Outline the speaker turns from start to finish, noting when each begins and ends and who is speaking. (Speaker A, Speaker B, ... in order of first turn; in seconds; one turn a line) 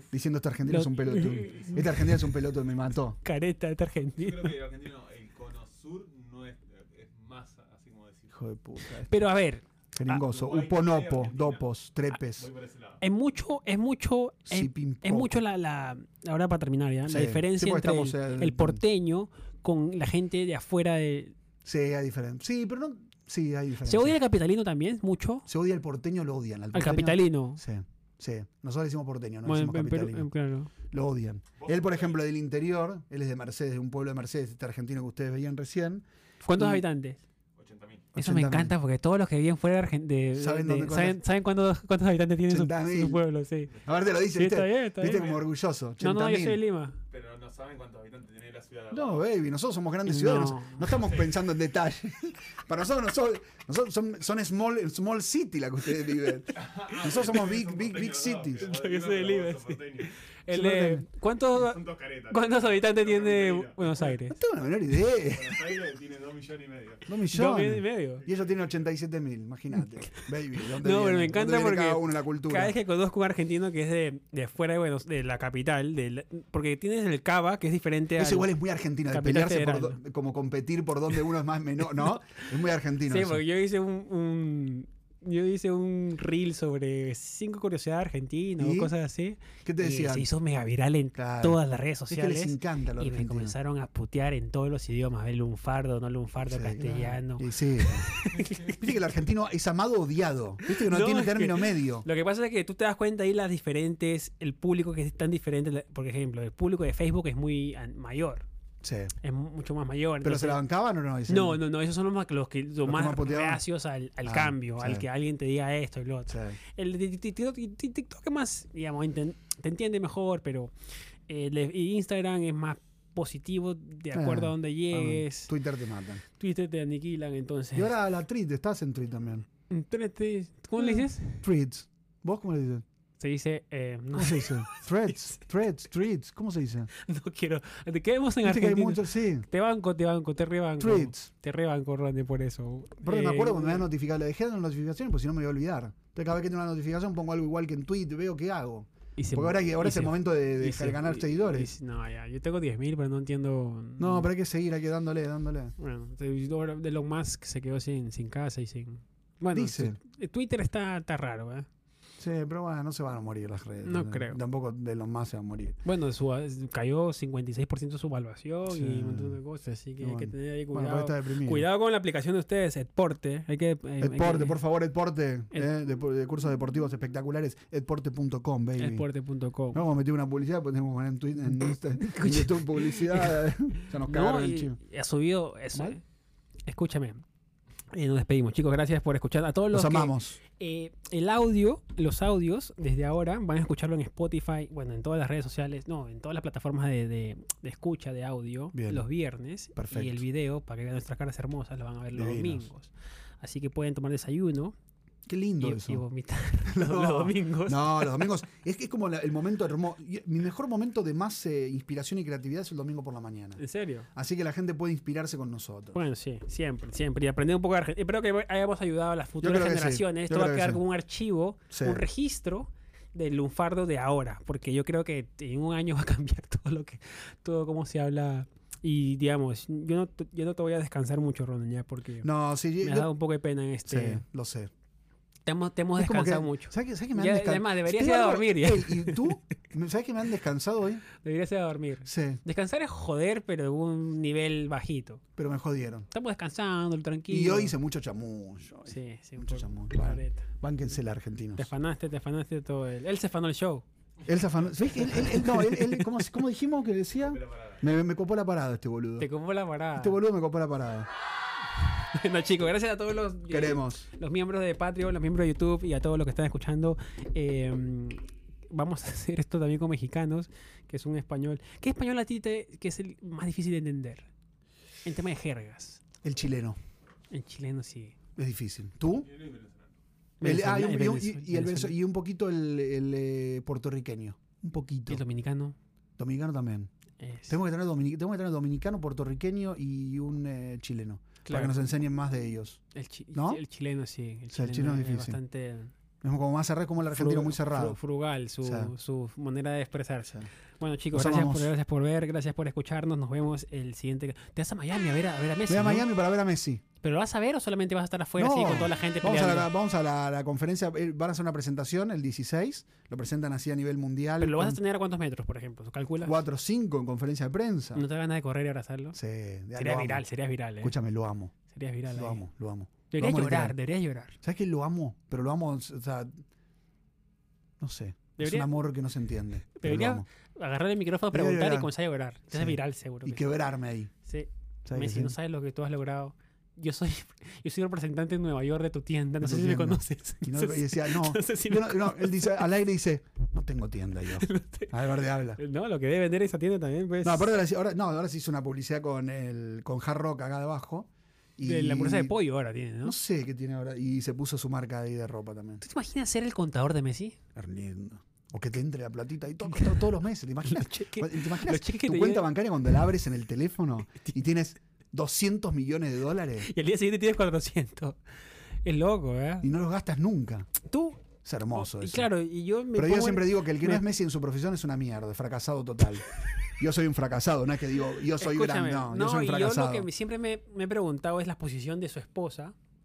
Speaker A: 0.1-3.2
Speaker B: 0.7-2.0
Speaker C: 1.0-1.9
Speaker B: 3.2-4.6
Speaker C: 4.1-8.4
Speaker A: 8.3-9.2
Speaker B: 9.1-9.7
Speaker A: 9.9-12.5
Speaker C: 10.1-11.6
Speaker C: 12.3-13.0
Speaker B: 13.0-21.4
Speaker A: 14.5-15.4
Speaker A: 17.1-18.8
Speaker A: 21.6-24.2
Speaker B: 23.8-25.5
Speaker A: 25.5-30.3
Speaker B: 26.7-27.6
Speaker B: 29.5-30.7
Speaker A: 30.9-36.8
Speaker C: 31.6-32.2
Speaker B: 36.5-37.2
Speaker C: 37.6-38.1
Speaker A: 38.1-38.8
Speaker B: 38.2-43.7
Speaker A: 40.4-41.2
Speaker A: 42.5-43.2
Speaker C: 43.7-44.1
Speaker A: 43.9-46.6
Speaker B: 44.3-45.3
Speaker C: 45.0-45.4
Speaker B: 46.0-47.0
Speaker C: 47.1-49.3
Speaker A: 48.9-58.7
Speaker B: 50.1-51.0
Speaker C: 56.5-60.1
Speaker B: 58.6-64.4
Speaker A: 60.5-61.0
Speaker C: 61.5-64.2
Speaker A: 64.3-65.6
Speaker C: 65.2-67.1
Speaker A: 67.1-72.8
Speaker B: 67.3-68.2
Speaker C: 68.2-68.7
Speaker B: 70.8-78.5
Speaker A: 78.2-83.4
Speaker B: 79.1-80.0
Speaker B: 83.1-98.8
Speaker A: 88.6-88.9
Speaker A: 89.7-90.3
Speaker A: 91.2-93.6
Speaker A: 96.5-98.1
Speaker A: 98.6-102.1
Speaker B: 100.7-108.5
Speaker A: 108.8-109.1
Speaker B: 109.2-110.6
Speaker A: 110.2-111.6
Speaker B: 111.3-120.7
Speaker A: 112.8-113.6
Speaker A: 114.2-115.0
Speaker A: 116.3-116.6
Speaker B: 121.3-125.5
Speaker A: 124.1-126.2
Speaker B: 126.4-127.9
Speaker A: 127.8-129.5
Speaker B: 129.7-131.5
Speaker A: 130.8-132.8
Speaker B: 133.2-135.1
Speaker A: 134.2-136.9
Speaker B: 136.9-143.9
Speaker A: 138.4-139.5
Speaker A: 140.8-141.3
Speaker A: 143.0-151.7
Speaker B: 149.2-154.3
Speaker A: 154.0-155.7
Speaker B: 155.8-161.7
Speaker A: 159.5-160.0
Speaker A: 162.2-165.8
Speaker B: 163.8-164.4
Speaker B: 165.8-174.6
Speaker A: 168.7-169.4
Speaker A: 170.0-171.7
Speaker A: 174.0-179.1
Speaker B: 178.8-179.9
Speaker A: 179.7-184.8
Speaker B: 181.6-183.4
Speaker B: 184.1-186.0
Speaker B: 186.7-187.2
Speaker B: 187.9-204.8
Speaker A: 189.7-190.4
Speaker A: 198.7-199.0
Speaker A: 199.8-200.2
Speaker A: 202.2-202.7
Speaker A: 205.3-206.0
Speaker B: 205.6-208.3
Speaker A: 206.7-213.6
Speaker B: 213.6-214.1
Speaker A: 214.1-216.0
Speaker B: 215.9-232.3
Speaker A: 219.4-220.8
Speaker A: 221.7-222.1
Speaker A: 232.2-233.1
Speaker B: 232.8-234.2
Speaker A: 233.9-234.7
Speaker B: 235.5-239.3
Speaker A: 236.0-241.0
Speaker B: 241.2-245.2
Speaker A: 242.1-242.4
Speaker A: 245.4-246.1
Speaker B: 246.1-247.8
Speaker A: 247.3-251.7
Speaker B: 248.9-250.5
Speaker B: 251.6-253.8
Speaker A: 254.3-259.3
Speaker C: 254.3-254.9
Speaker B: 255.0-256.2
Speaker C: 257.2-257.8
Speaker B: 259.2-260.2
Speaker A: 260.0-261.1
Speaker B: 262.1-274.3
Speaker A: 263.5-264.1
Speaker B: 275.0-276.0
Speaker A: 276.2-276.8
Speaker B: 277.3-278.2
Speaker A: 278.4-279.3
Speaker C: 279.2-279.9
Speaker B: 280.4-282.0
Speaker A: 280.4-285.2
Speaker B: 285.1-285.8
Speaker A: 286.2-286.9
Speaker B: 287.2-287.6
Speaker A: 287.5-292.8
Speaker B: 291.4-291.8
Speaker B: 292.9-295.9
Speaker A: 293.3-293.6
Speaker A: 294.5-295.4
Speaker A: 296.2-298.0
Speaker B: 297.1-306.1
Speaker A: 298.6-298.9
Speaker A: 301.1-301.7
Speaker A: 305.7-306.8
Speaker B: 307.0-309.7
Speaker A: 308.4-314.8
Speaker B: 314.4-316.4
Speaker A: 316.2-318.0
Speaker B: 317.9-319.2
Speaker A: 319.1-320.2
Speaker B: 319.8-320.9
Speaker A: 320.8-321.5
Speaker B: 321.7-322.4
Speaker A: 322.1-323.8
Speaker B: 323.1-324.4
Speaker A: 324.4-326.4
Speaker A: 327.8-330.3
Speaker B: 328.4-328.7
Speaker B: 329.8-333.5
Speaker A: 331.3-331.9
Speaker A: 332.5-334.1
Speaker B: 334.2-342.6
Speaker A: 334.9-335.3
Speaker A: 339.4-345.6
Speaker B: 344.4-344.9
Speaker B: 345.6-347.6
Speaker A: 347.2-352.4
Speaker B: 351.6-353.2
Speaker A: 353.0-355.8
Speaker B: 355.8-357.4
Speaker A: 357.6-366.7
Speaker B: 360.6-362.5
Speaker B: 366.6-368.2
Speaker B: 368.9-369.7
Speaker A: 369.6-370.7
Speaker B: 370.8-374.0
Speaker A: 371.4-372.3
Speaker A: 372.9-380.1
Speaker B: 378.4-382.8